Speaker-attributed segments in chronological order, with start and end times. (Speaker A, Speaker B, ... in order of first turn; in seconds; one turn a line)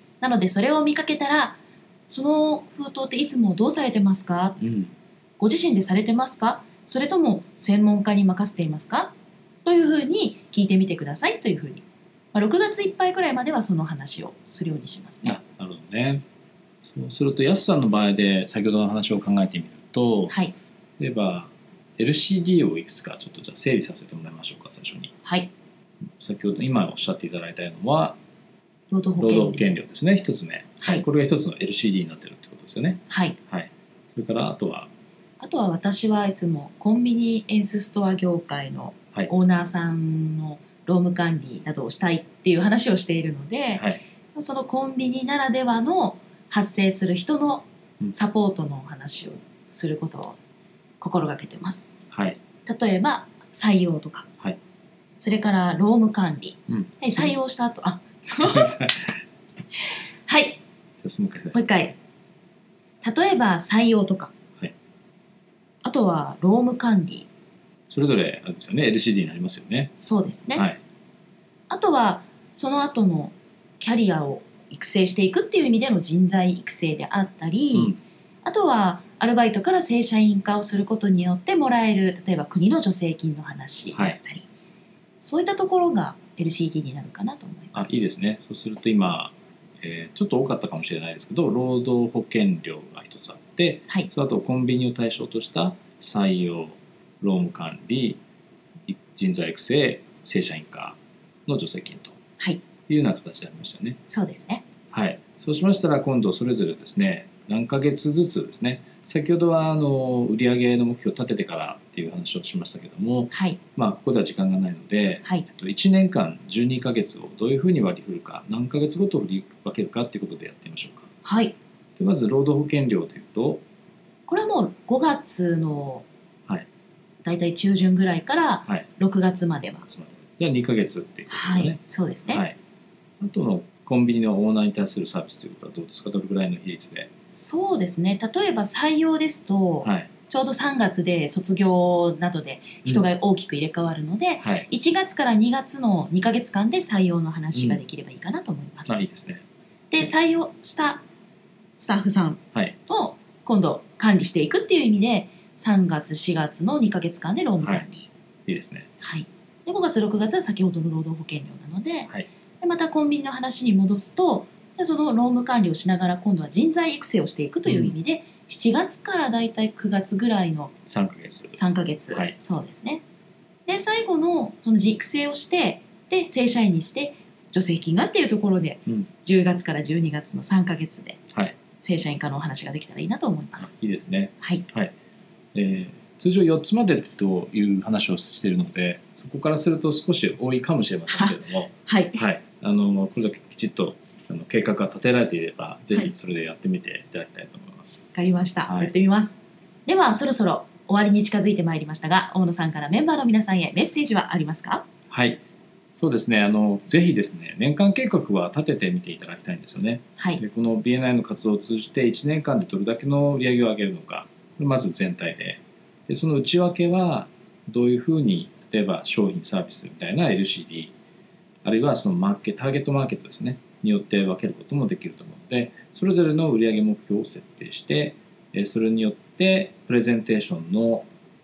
Speaker A: 0.2-1.6
Speaker A: 2.1-4.6
Speaker B: 4.6-4.9
Speaker A: 5.4-9.1
Speaker A: 9.6-15.4
Speaker B: 15.2-16.2
Speaker B: 16.8-20.3
Speaker B: 21.0-25.1
Speaker A: 25.2-25.5
Speaker B: 26.2-28.2
Speaker A: 28.9-29.6
Speaker B: 29.2-34.9
Speaker A: 33.1-33.4
Speaker A: 35.4-50.4
Speaker B: 43.7-44.0
Speaker A: 51.0-51.9
Speaker B: 52.1-52.4
Speaker A: 52.6-54.3
Speaker A: 55.2-58.8
Speaker B: 56.7-57.3
Speaker B: 58.4-59.1
Speaker A: 59.8-60.6
Speaker B: 61.0-61.6
Speaker A: 61.5-62.0
Speaker A: 63.0-64.3
Speaker A: 65.8-67.3
Speaker B: 67.9-69.9
Speaker A: 70.0-70.7
Speaker A: 71.7-84.5
Speaker B: 77.7-78.0
Speaker A: 85.2-87.9
Speaker B: 87.7-98.2
Speaker B: 98.8-102.2
Speaker B: 102.9-104.0
Speaker A: 104.1-104.6
Speaker B: 104.9-121.1
Speaker A: 113.3-113.6
Speaker A: 121.2-121.5
Speaker B: 122.0-123.6
Speaker A: 124.3-126.0
Speaker A: 127.2-129.8
Speaker B: 129.9-132.6
Speaker A: 131.3-132.4
Speaker B: 133.2-137.1
Speaker A: 137.3-148.9
Speaker B: 139.8-140.1
Speaker B: 144.4-144.7
Speaker B: 147.5-147.8
Speaker B: 148.9-149.4
Speaker A: 149.9-151.0
Speaker A: 151.8-158.1
Speaker B: 158.4-158.9
Speaker A: 159.0-170.7
Speaker B: 167.7-167.9
Speaker B: 170.9-171.6
Speaker A: 171.5-173.0
Speaker A: 173.7-181.2
Speaker A: 181.8-183.7
Speaker B: 183.6-184.9
Speaker B: 185.5-198.0
Speaker A: 191.1-192.2
Speaker A: 198.1-204.8
Speaker B: 198.6-198.9
Speaker B: 205.1-205.4
Speaker B: 205.9-220.9
Speaker B: 221.6-231.1